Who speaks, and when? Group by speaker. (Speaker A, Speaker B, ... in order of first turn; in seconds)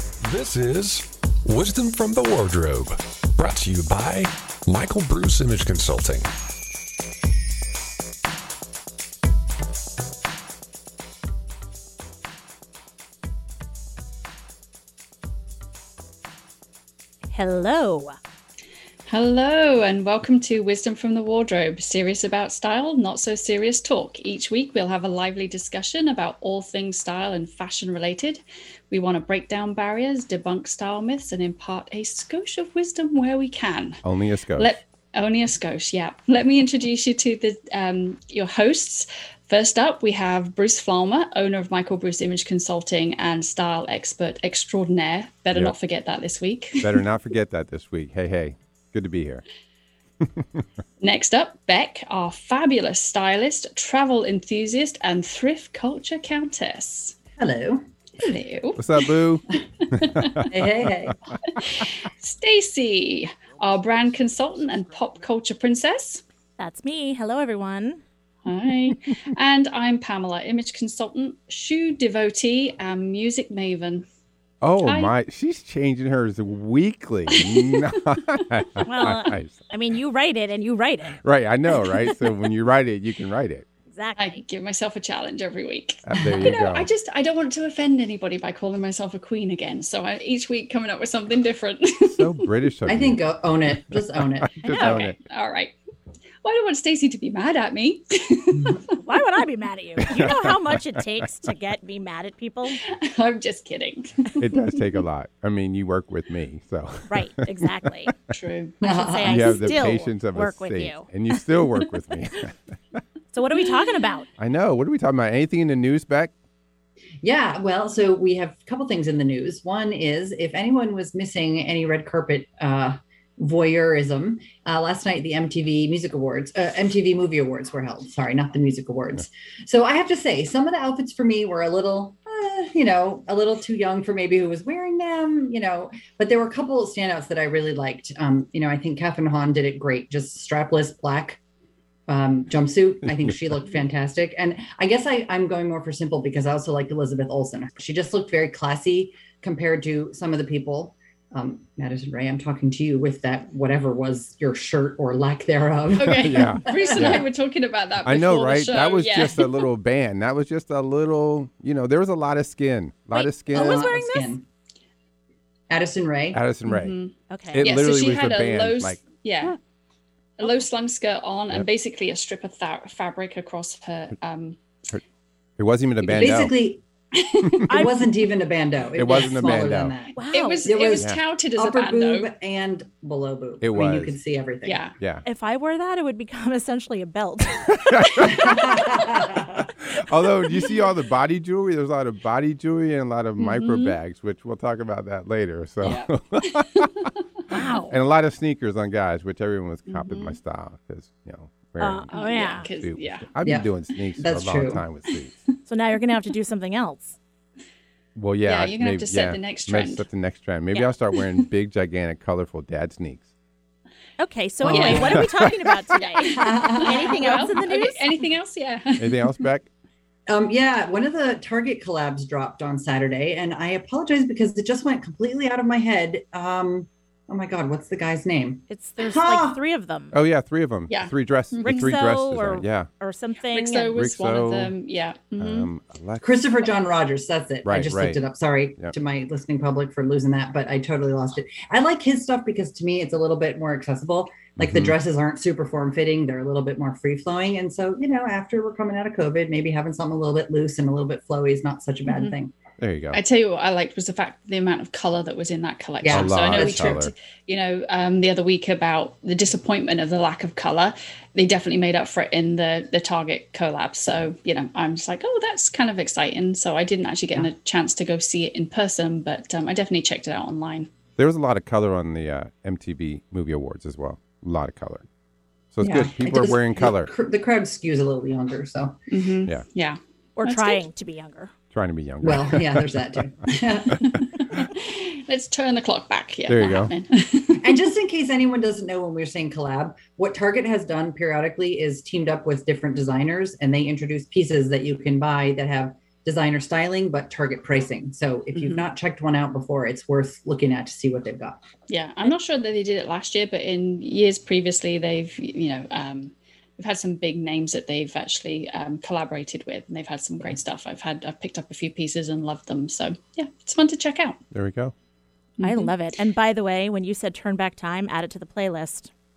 Speaker A: 0.2-6.3
Speaker B: 17.3-18.1, 66.6-68.0, 78.8-81.2, 83.9-84.4, 99.0-102.8, 107.1-108.1, 108.8-111.1, 113.3-114.3, 163.1-164.3, 167.3-167.7, 177.7-178.0, 180.2-180.7, 185.2-189.5, 197.5-197.9, 201.8-202.7, 205.7-207.2, 214.2-218.1, 228.7-230.1, 231.6-234.0, 280.4-281.5, 315.6-319.1
Speaker C: 19.1-34.0, 34.5-47.0, 51.0-57.2, 58.2-59.1, 59.8-60.5, 61.5-66.2, 68.5-74.0, 74.8-75.1, 77.4-77.8, 84.2-92.5, 94.6-95.7, 96.4-99.0, 102.8-104.8, 108.3-108.8, 156.0-159.7, 166.7-169.6, 170.4-174.6, 177.1-177.8, 180.3-182.3, 184.6-184.9, 193.4-194.0, 195.8-196.8, 199.9-200.4, 202.1-203.3, 208.4-210.1, 214.7-215.1, 216.0-219.4, 230.9-231.9, 233.5-235.7, 252.1-252.3, 253.1-270.9, 279.1-280.8, 284.7-287.8, 298.5-298.8, 301.9-314.4, 315.6-315.9
Speaker D: 34.0-34.7, 46.8-49.4, 58.8-60.7, 74.6-79.6, 81.2-83.7, 86.0-86.9, 92.0-93.2, 94.6-95.2, 100.0-100.8, 104.4-107.7, 109.2-112.5, 114.4-116.3, 156.2-157.2, 158.1-163.9, 166.3-166.9, 167.5-169.0, 175.6-176.5, 178.9-179.9, 183.6-184.2, 185.0-185.2, 187.9-188.7, 189.6-197.1, 197.9-202.1, 202.6-205.3, 208.1-213.3, 214.7-215.5, 219.0-219.7, 230.1-232.9, 233.9-234.7, 235.4-236.3, 237.7-238.2, 244.6-244.9, 252.8-253.2, 256.1-257.1, 271.2-275.0, 275.7-277.1, 281.7-283.0, 286.5-286.9, 314.5-314.9
Speaker E: 57.4-57.9, 60.5-61.1, 86.2-86.5, 92.8-95.0, 108.8-109.8, 117.2-141.4, 142.1-157.2, 163.5-164.4, 165.7-166.4, 176.0-176.8, 177.6-184.8, 188.2-189.5, 203.4-204.8, 214.6-215.4, 216.2-217.5, 220.3-229.6, 236.2-252.5, 256.0-257.0, 275.8-279.0, 282.2-284.2, 287.6-301.6